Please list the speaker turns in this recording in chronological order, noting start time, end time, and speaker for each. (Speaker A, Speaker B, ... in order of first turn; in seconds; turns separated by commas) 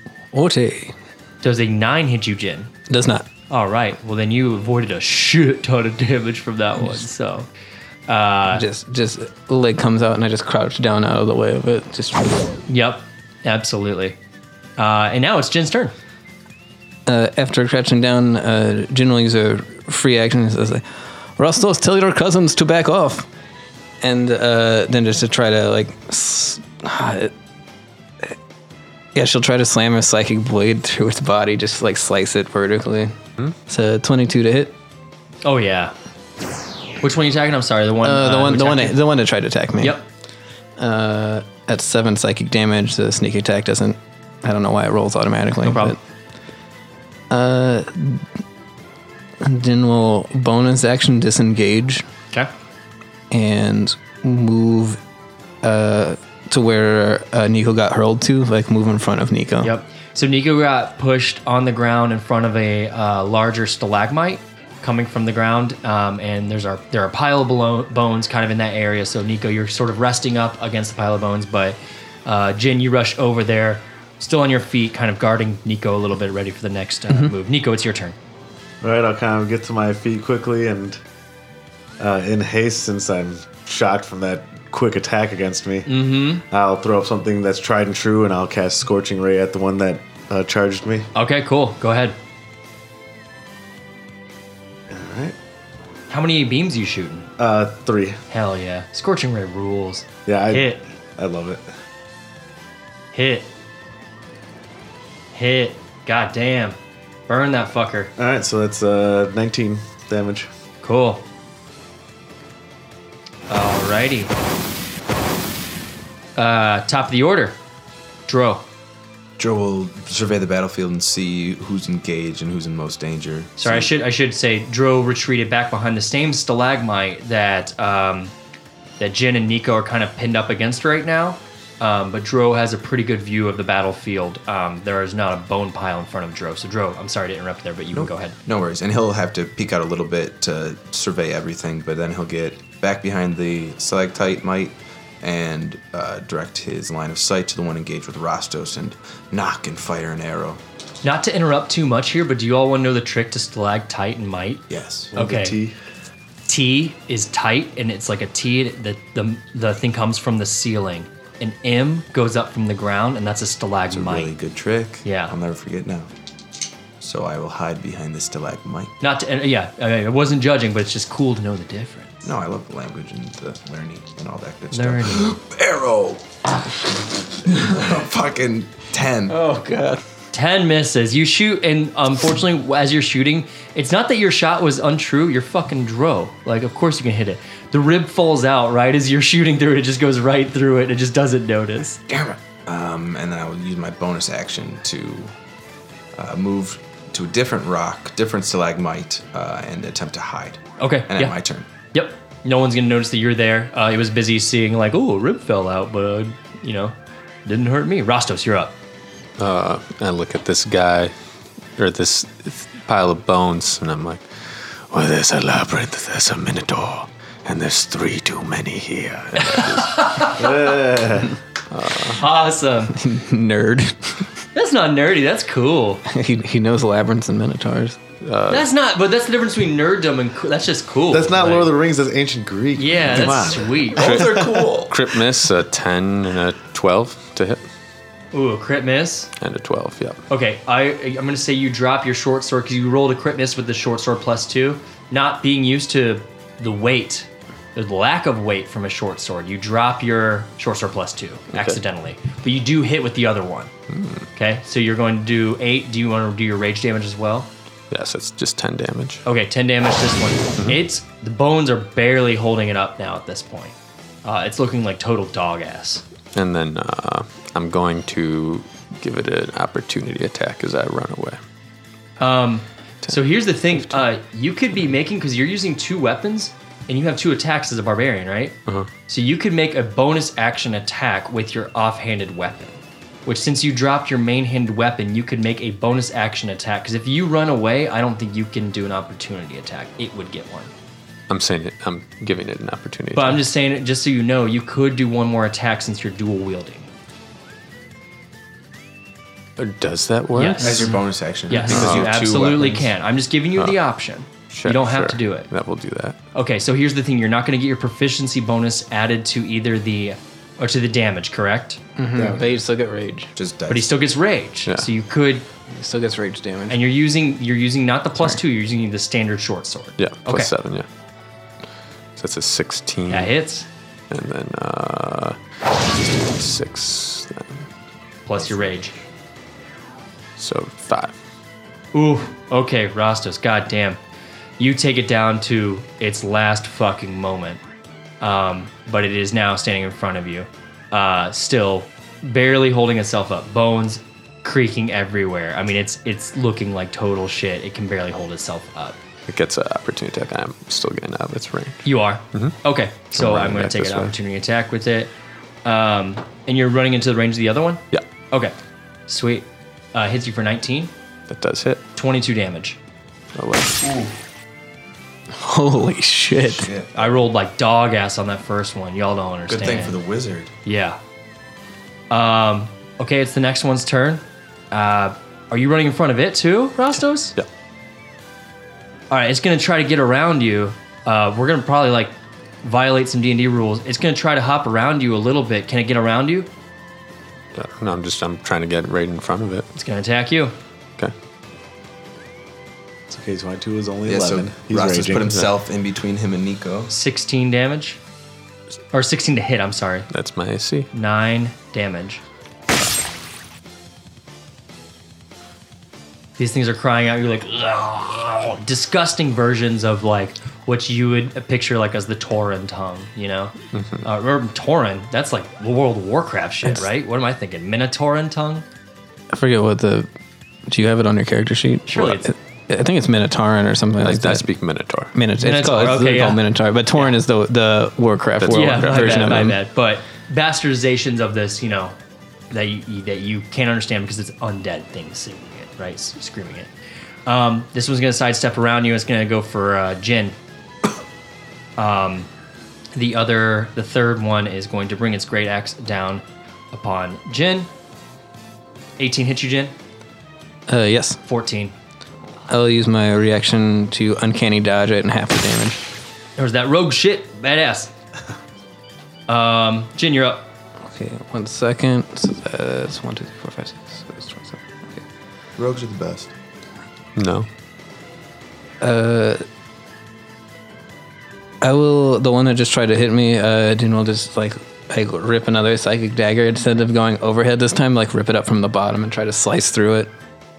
Speaker A: 0.3-0.9, Speaker B: 1.4-2.7, Speaker A: 2.9-3.3, Speaker B: 3.5-7.5, Speaker B: 8.1-8.6, Speaker A: 8.5-12.5, Speaker B: 12.7-14.2, Speaker B: 14.8-15.9, Speaker A: 17.1-23.3, Speaker A: 24.0-27.3, Speaker A: 29.1-33.2, Speaker A: 33.7-34.8, Speaker B: 35.4-35.9, Speaker B: 37.0-39.0, Speaker A: 38.0-40.0, Speaker B: 39.8-40.0, Speaker A: 40.8-46.0, Speaker B: 45.6-46.0, Speaker A: 47.3-48.2, Speaker A: 49.4-52.0, Speaker A: 53.3-55.0, Speaker A: 55.6-59.7, Speaker B: 59.6-78.2, Speaker C: 78.8-81.0, Speaker C: 82.0-91.1, Speaker B: 85.9-86.4, Speaker B: 91.1-92.2, Speaker C: 94.9-95.3, Speaker B: 96.1-97.3, Speaker C: 97.4-98.2, Speaker B: 98.3-100.8, Speaker C: 100.3-101.7, Speaker B: 103.1-103.5, Speaker B: 105.3-108.1, Speaker C: 108.2-110.5, Speaker B: 110.8-111.2, Speaker B: 113.5-114.3, Speaker B: 116.3-117.6, Speaker B: 118.3-118.6, Speaker D: 119.4-123.9, Speaker B: 123.6-128.3, Speaker B: 129.0-138.4, Speaker D: 137.9-150.6, Speaker B: 151.0-154.6, Speaker D: 154.7-155.1, Speaker C: 155.1-155.7, Speaker B: 155.2-155.6, Speaker B: 156.5-164.3, Speaker D: 163.9-166.1, Speaker B: 165.0-165.3, Speaker D: 167.0-168.9, Speaker B: 169.0-172.3, Speaker D: 172.2-176.3, Speaker B: 174.7-175.3, Speaker D: 177.3-179.4, Speaker A: 179.3-180.0, Speaker B: 180.3-192.0, Speaker D: 192.1-195.3, Speaker D: 196.2-201.7, Speaker B: 200.8-201.3, Speaker B: 201.9-208.8, Speaker E: 209.4-211.1, Speaker E: 211.8-220.3, Speaker B: 219.4-220.5, Speaker C: 220.3-221.3, Speaker E: 221.7-222.2, Speaker B: 222.2-222.9, Speaker A: 222.9-224.2, Speaker B: 224.5-226.0, Speaker A: 226.1-228.0, Speaker E: 228.2-228.7, Speaker B: 228.5-231.7, Speaker C: 231.1-234.7, Speaker B: 232.8-234.1, Speaker E: 233.9-237.6, Speaker D: 234.0-234.9, Speaker B: 238.3-239.3, Speaker E: 239.4-240.2, Speaker B: 240.3-253.7, Speaker E: 251.5-251.8, Speaker E: 253.9-254.2, Speaker B: 254.3-257.5, Speaker E: 257.9-259.2, Speaker B: 259.2-266.0, Speaker E: 266.3-271.4, Speaker B: 272.2-278.6, Speaker E: 273.7-274.0, Speaker B: 279.1-290.7, Speaker E: 291.3-293.4, Speaker B: 293.1-296.9, Speaker E: 299.6-300.9, Speaker B: 300.3-301.0, Speaker D: 300.6-302.9, Speaker B: 301.5-305.5, Speaker E: 301.6-302.1, Speaker E: 304.5-306.2, Speaker B: 306.3-311.8, Speaker A: 311.9-313.3, Speaker C: 312.1-312.5, Speaker D: 313.3-314.0, Speaker B: 313.7-315.4, Speaker A: 315.7-316.8, Speaker B: 316.7-320.5, Speaker E: 320.0-320.9, Speaker E: 322.2-323.3, Speaker B: 323.1-323.7, Speaker E: 324.1-327.7, Speaker B: 328.2-328.9, Speaker D: 328.4-328.7, Speaker E: 330.4-331.2, Speaker B: 331.9-334.0, Speaker B: 334.6-337.6, Speaker B: 338.2-349.0, Speaker E: 349.3-352.6, Speaker B: 351.8-355.1, Speaker E: 353.1-354.1, Speaker B: 355.6-358.5, Speaker B: 359.1-360.9, Speaker E: 361.3-361.8, Speaker B: 361.9-362.8, Speaker E: 363.3-363.8, Speaker D: 363.8-364.1, Speaker A: 365.3-366.7, Speaker D: 366.5-367.2, Speaker B: 366.9-370.0, Speaker D: 369.5-370.5, Speaker B: 370.6-371.0, Speaker B: 372.1-377.3, Speaker B: 379.1-386.5, Speaker E: 387.5-389.7, Speaker B: 389.7-390.5, Speaker C: 393.1-395.4, Speaker D: 394.1-396.9, Speaker B: 396.9-398.0, Speaker B: 398.9-400.1, Speaker E: 400.1-400.9, Speaker B: 400.9-402.2, Speaker B: 406.4-418.6, Speaker E: 413.7-414.0, Speaker A: 419.3-420.1, Speaker A: 420.7-424.5, Speaker B: 421.9-422.3, Speaker E: 424.0-425.1, Speaker A: 425.1-429.6, Speaker B: 425.4-426.4, Speaker E: 428.4-429.5, Speaker B: 428.5-432.0, Speaker B: 432.5-436.7, Speaker B: 437.2-440.4, Speaker B: 441.8-442.3, Speaker B: 442.9-447.7, Speaker B: 449.0-449.7, Speaker A: 450.7-451.2, Speaker B: 451.2-451.7, Speaker A: 452.5-455.8, Speaker B: 456.4-457.9, Speaker B: 459.3-460.4, Speaker A: 460.9-465.0, Speaker D: 465.6-466.3, Speaker E: 467.1-467.5, Speaker A: 468.8-469.4, Speaker A: 471.6-480.1